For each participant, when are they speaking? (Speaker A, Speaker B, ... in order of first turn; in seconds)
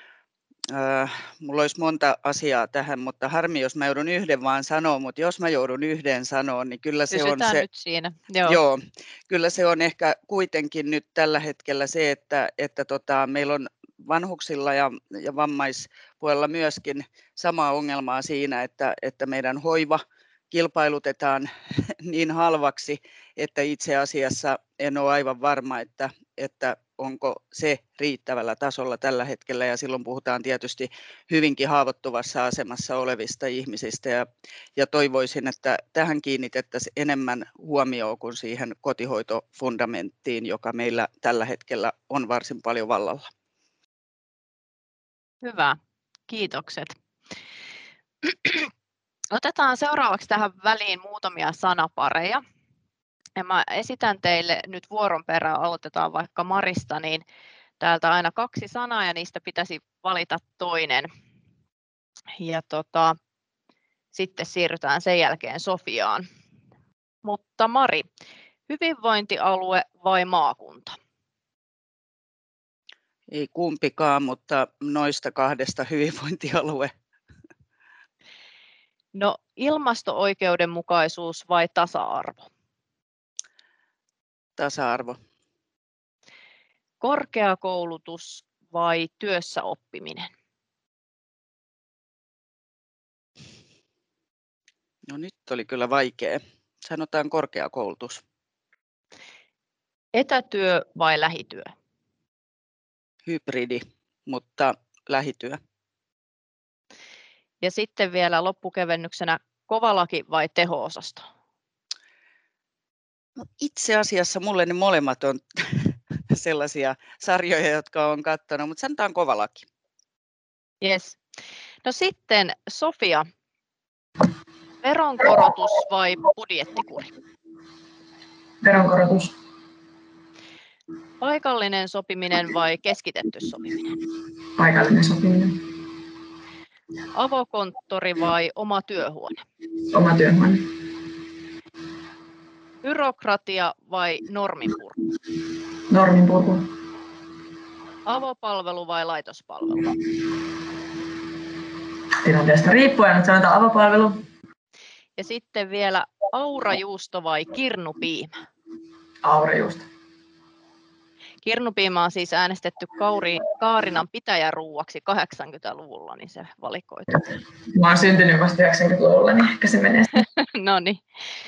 Speaker A: 0.7-7.6, 8.5-43.3, 73.3-76.9, 84.6-85.2, 95.1-98.2, 103.3-105.6, 113.6-119.7
Speaker B: 7.1-8.6, 45.4-45.8, 46.3-47.0, 48.2-48.7, 49.3-52.4, 53.4-57.2, 57.8-61.1, 62.4-63.2, 64.1-66.3, 67.2-68.0, 68.7-71.0, 79.2-82.5, 87.0-90.3, 100.1-101.7, 107.6-111.2, 120.8-121.2, 121.8-123.3, 124.8-127.1, 131.2-133.9, 137.1-139.4, 142.8-144.9, 148.1-149.9, 155.2-158.3, 161.4-167.2, 170.4-171.0
Speaker C: 128.6-129.3, 134.6-135.6, 139.9-140.7, 145.9-146.7, 152.2-154.2, 159.2-159.9, 167.7-170.2